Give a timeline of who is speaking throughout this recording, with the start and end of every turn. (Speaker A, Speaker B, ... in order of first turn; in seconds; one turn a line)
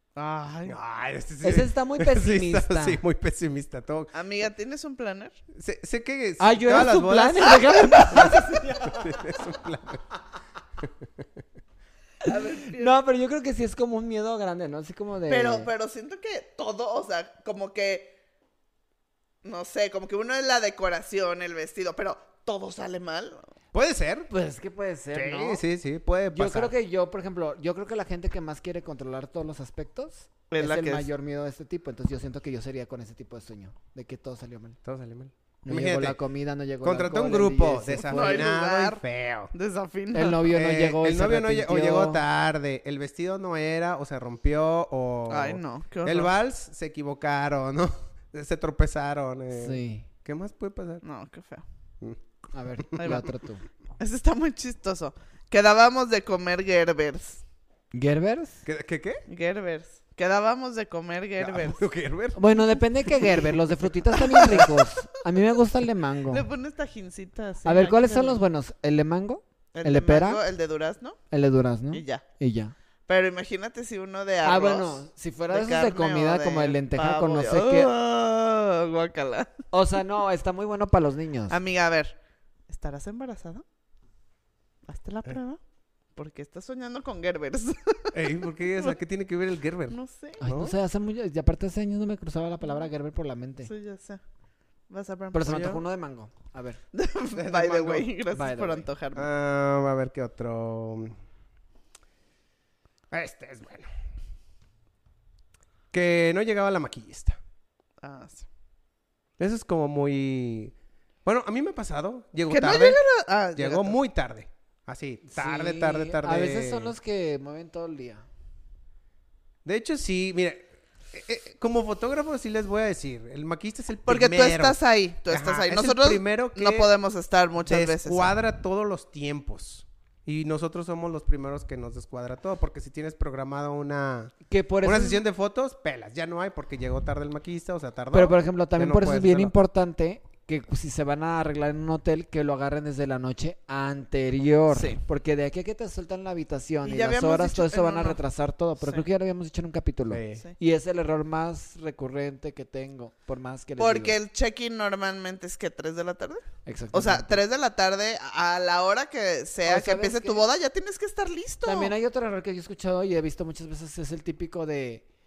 Speaker A: 0.1-0.8
Speaker B: 0.7-4.1
Speaker C: 1.4-3.0
Speaker A: 4.1-5.4
Speaker B: 5.5-10.0
Speaker C: 6.4-9.4
Speaker A: 7.5-8.3
Speaker A: 12.2-12.9
Speaker C: 12.2-15.7
Speaker A: 15.3-18.1
Speaker A: 19.4-23.4
Speaker B: 23.7-24.3
Speaker C: 24.3-25.6
Speaker B: 25.1-26.7
Speaker C: 26.3-34.8
Speaker A: 30.5-31.1
Speaker B: 34.8-36.2
Speaker C: 35.6-38.5
Speaker B: 36.8-39.5
Speaker A: 38.0-39.0
Speaker A: 39.5-40.4
Speaker C: 40.1-42.2
Speaker B: 40.5-51.0
Speaker A: 45.3-46.3
Speaker C: 49.5-50.0
Speaker A: 51.0-51.6
Speaker C: 52.5-53.6
Speaker B: 52.8-53.0
Speaker A: 53.0-53.3
Speaker A: 54.0-57.4
Speaker C: 57.9-58.6
Speaker B: 58.6-59.2
Speaker A: 59.3-61.8
Speaker B: 61.4-62.4
Speaker C: 62.3-66.5
Speaker B: 63.2-63.5
Speaker A: 64.2-64.8
Speaker B: 64.4-64.7
Speaker A: 66.3-68.4
Speaker C: 67.6-70.4
Speaker A: 69.7-71.2
Speaker C: 71.3-72.7
Speaker A: 71.9-72.2
Speaker A: 73.1-79.5
Speaker C: 74.4-77.9
Speaker C: 79.7-81.6
Speaker A: 81.5-82.2
Speaker A: 82.7-83.6
Speaker A: 84.9-85.6
Speaker A: 86.2-88.2
Speaker B: 88.1-90.7
Speaker A: 89.9-90.4
Speaker C: 90.4-93.7
Speaker A: 93.6-94.2
Speaker A: 94.9-95.8
Speaker C: 95.3-96.8
Speaker A: 96.9-99.3
Speaker B: 97.3-98.1
Speaker C: 98.3-98.9
Speaker B: 99.2-101.2
Speaker B: 103.1-103.9
Speaker B: 105.9-107.4
Speaker A: 108.0-108.5
Speaker B: 109.4-113.0
Speaker A: 112.5-114.0
Speaker B: 113.5-116.9
Speaker C: 115.2-118.2
Speaker B: 119.6-126.9
Speaker A: 124.1-128.3
Speaker B: 127.7-139.5
Speaker C: 134.5-135.2
Speaker C: 138.1-154.2
Speaker A: 144.7-145.0
Speaker A: 146.8-148.2
Speaker B: 150.1-150.4
Speaker A: 153.8-161.9
Speaker C: 156.6-157.4
Speaker C: 159.7-160.5
Speaker C: 161.6-165.0